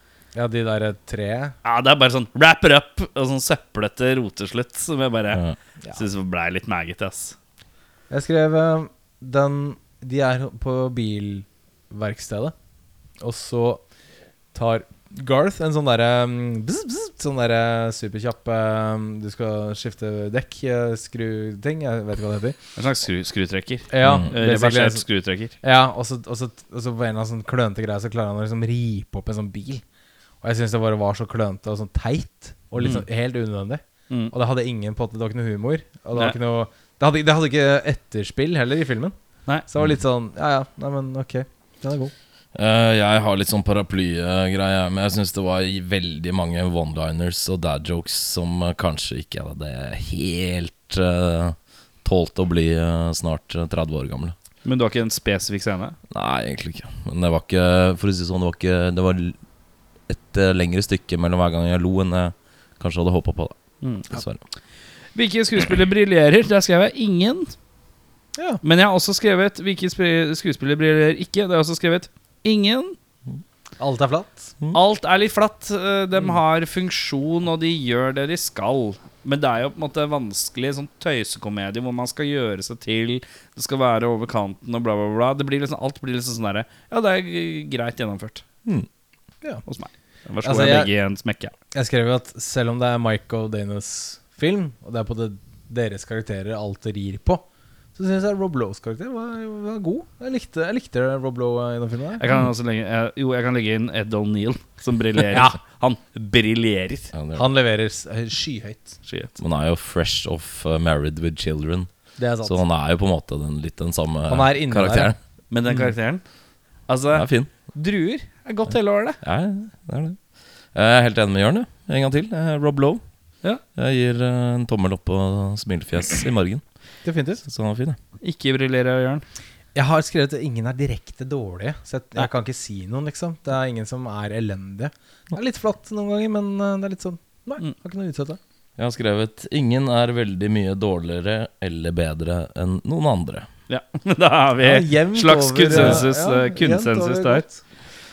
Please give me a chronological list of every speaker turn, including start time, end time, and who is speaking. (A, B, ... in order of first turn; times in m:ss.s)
0:00.3-0:01.5 A
0:01.6-0:05.4 B
0:05.9-0:07.4 B
0:08.1-0:12.5 A
0:13.2-0:13.8 A
0:14.5-0:22.6 A
0:22.8-0:25.5 B
0:23.9-0:25.0 A
0:24.0-0:24.3 C
0:25.6-0:29.8 A
0:30.4-0:42.1 A
0:42.5-0:54.3 C
0:54.6-0:56.0 B
0:56.1-0:59.4 C
1:00.1-1:04.4 C
1:03.8-1:04.1 B
1:05.1-1:07.5 B
1:08.3-1:08.6 A
1:08.6-1:13.0 B
1:13.8-1:14.5 A
1:14.7-1:28.4 B
1:29.6-1:31.5 B
1:30.4-1:30.9 A
1:31.7-1:42.3 A
1:42.2-1:47.1 B
1:45.3-1:45.6 A
1:47.1-1:47.5 C
1:47.3-1:49.0 A
1:49.0-1:49.3 B
1:49.4-1:55.2 C
1:52.2-1:52.6 A
1:54.3-1:55.1 A
1:55.5-1:56.3 B
1:56.8-1:59.2 B
1:57.1-1:57.5 C
1:59.2-2:08.0 C
2:07.0-2:07.4 A
2:08.2-2:09.2 B
2:09.7-2:18.4 A
2:18.8-2:23.5 C
2:23.7-2:27.5 B
2:24.6-2:27.5 A
2:25.7-2:26.0 C